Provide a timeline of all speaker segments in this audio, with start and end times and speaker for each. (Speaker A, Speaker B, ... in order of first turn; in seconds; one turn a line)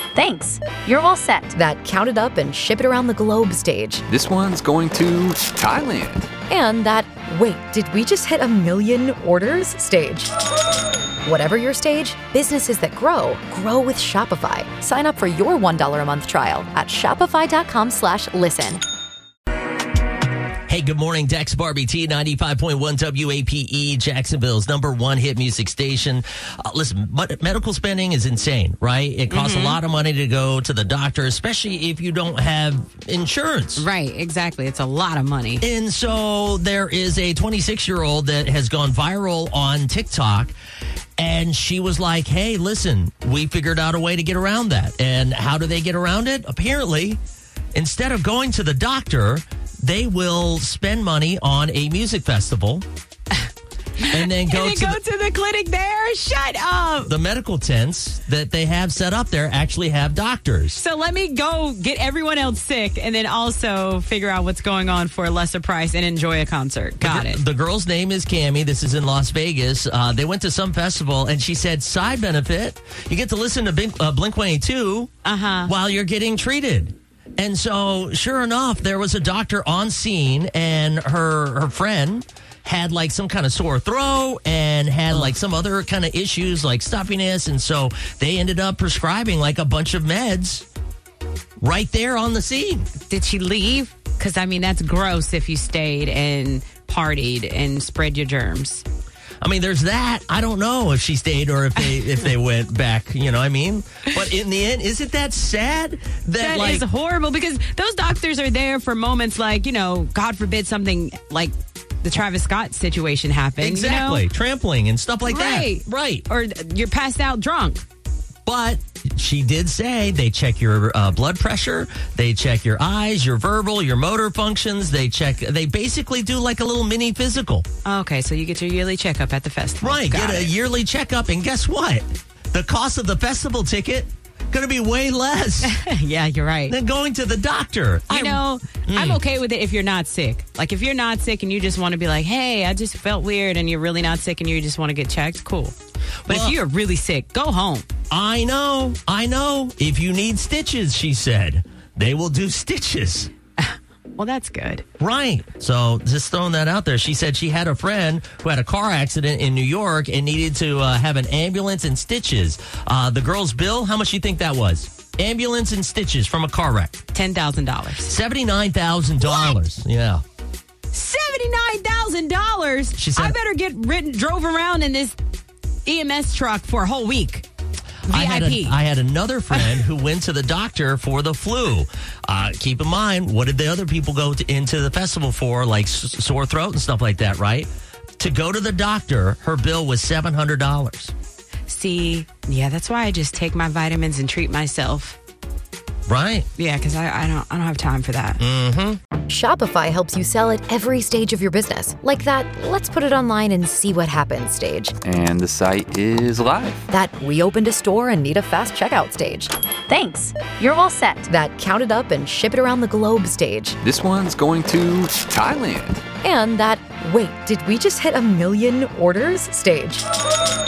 Speaker A: 0.1-1.5
Speaker B: 1.5-4.0
Speaker C: 4.1-6.3
Speaker B: 6.5-10.3
Speaker B: 11.2-18.8
Speaker D: 20.7-33.9
Speaker E: 29.3-29.8
Speaker E: 33.8-35.6
Speaker D: 35.6-40.5
Speaker D: 41.2-47.2
Speaker D: 47.7-52.8
Speaker E: 54.0-57.1
Speaker D: 54.1-55.0
Speaker D: 57.0-60.8
Speaker E: 60.8-67.4
Speaker D: 67.0-75.1
Speaker E: 75.2-75.7
Speaker D: 75.7-90.7
Speaker D: 91.6-92.9
Speaker E: 93.1-98.8
Speaker D: 99.4-106.8
Speaker E: 106.4-114.2
Speaker D: 113.6-116.2
Speaker E: 115.2-117.8
Speaker D: 118.5-127.6
Speaker E: 127.8-130.5
Speaker D: 129.8-135.8
Speaker E: 135.6-136.8
Speaker D: 136.7-139.2
Speaker E: 138.1-145.7
Speaker D: 146.3-146.6
Speaker E: 146.3-147.9
Speaker D: 148.1-153.3
Speaker E: 153.6-154.8
Speaker D: 155.0-167.0
Speaker E: 167.1-168.1
Speaker D: 168.1-170.2
Speaker E: 169.2-169.6
Speaker E: 170.9-175.2
Speaker D: 173.0-173.4
Speaker E: 175.8-177.4
Speaker E: 178.1-178.8
Speaker D: 178.1-191.1
Speaker E: 179.5-179.8
Speaker E: 191.7-195.2
Speaker D: 196.1-196.5
Speaker E: 196.6-198.4
Speaker D: 198.4-199.0
Speaker B: 199.3-204.9
Speaker C: 205.0-206.8
Speaker B: 206.9-209.5
Speaker A: 209.9-211.3
Speaker B: 211.3-213.8
Speaker C: 213.8-216.0
Speaker B: 216.2-220.0